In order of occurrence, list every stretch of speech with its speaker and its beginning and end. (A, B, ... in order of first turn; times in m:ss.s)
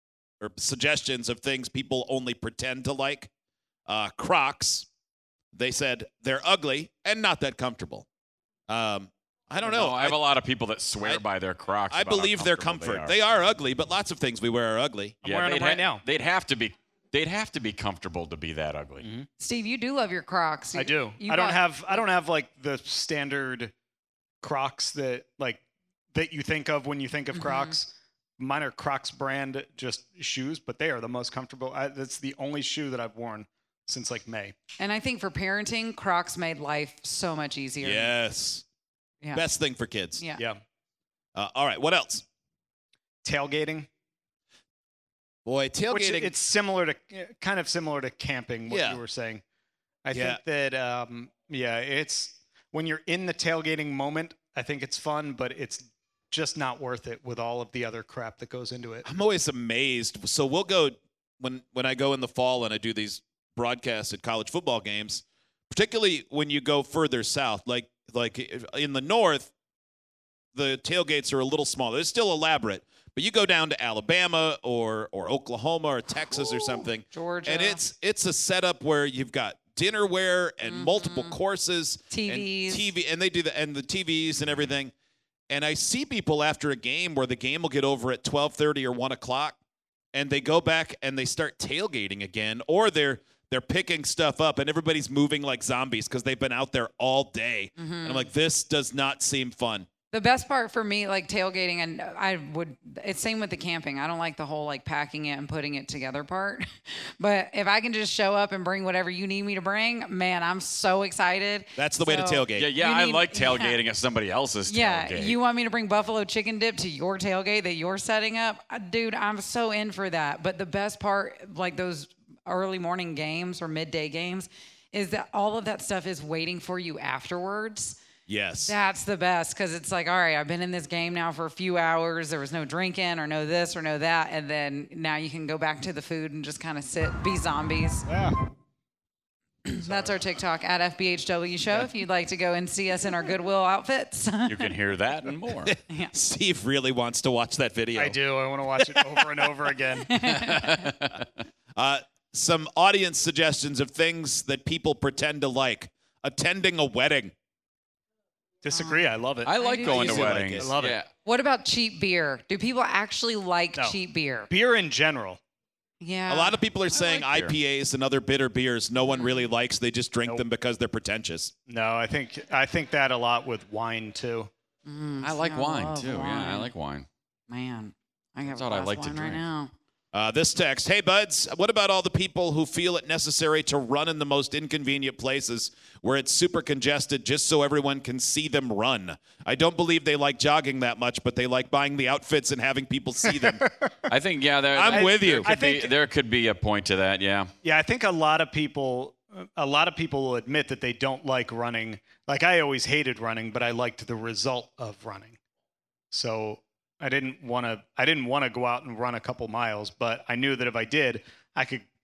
0:00.4-0:03.3 A
0:03.9-0:04.9 A
0:05.5-0:08.1 A
0:08.7-0:10.2 A
0:09.6-0:13.2 B
0:11.9-0:15.2 A
0:15.2-0:16.0 C
0:15.2-0:19.1 B
0:19.0-0:19.3 C
0:19.4-0:21.6 D
0:20.7-0:23.7 C
0:24.4-0:34.6 C
0:27.3-0:27.8 D
0:34.8-0:38.2 D
0:37.8-0:38.6 A
0:39.3-0:40.3 A
0:40.2-0:40.4 D
0:40.4-0:40.6 C
0:41.4-0:42.2 A
0:43.2-0:43.9 C
0:45.4-0:46.3 A
0:45.9-0:49.4 C
0:48.7-0:49.0 A
0:50.0-0:59.1 C
0:50.1-0:50.4 A
0:59.0-1:09.5 A
1:10.5-1:24.9 A
1:16.3-1:17.8 D
1:20.6-1:21.4 D
1:22.1-1:22.9 D
1:25.5-1:29.6 A
1:30.1-1:39.9 A
1:37.8-1:38.3 D
1:40.1-1:53.8 D
1:51.8-1:52.7 A
1:52.6-1:55.4 B
1:54.7-2:08.0 D
2:08.3-2:08.8 A
2:08.6-2:18.1 D
2:18.1-2:18.4 C
2:19.7-2:24.7 D
2:19.8-2:20.2 C
2:24.5-2:25.7 B
2:25.7-2:28.2 A
2:27.9-2:30.1 C
2:30.1-2:30.8 D
2:30.2-2:31.3 B
2:31.8-2:37.3 A
2:38.6-2:41.0 C
2:38.7-2:40.4 D
2:39.4-2:41.1 B
2:40.2-2:40.7 A
2:41.2-2:44.5 D
2:44.5-2:45.4 C
2:46.0-2:46.6 D
2:46.3-2:51.5 A
2:46.9-2:47.6 B
2:49.0-2:49.5 D
2:51.7-2:54.5 C
2:54.8-2:56.7 D
2:55.2-2:57.1 B
2:57.5-2:59.7 D
2:58.4-2:59.4 B
3:00.1-3:13.6 A
3:13.2-3:14.1 C
3:14.1-3:17.5 B
3:14.7-3:15.5 A
3:14.8-3:15.9 C
3:17.6-3:25.4 C
3:26.1-3:31.8 C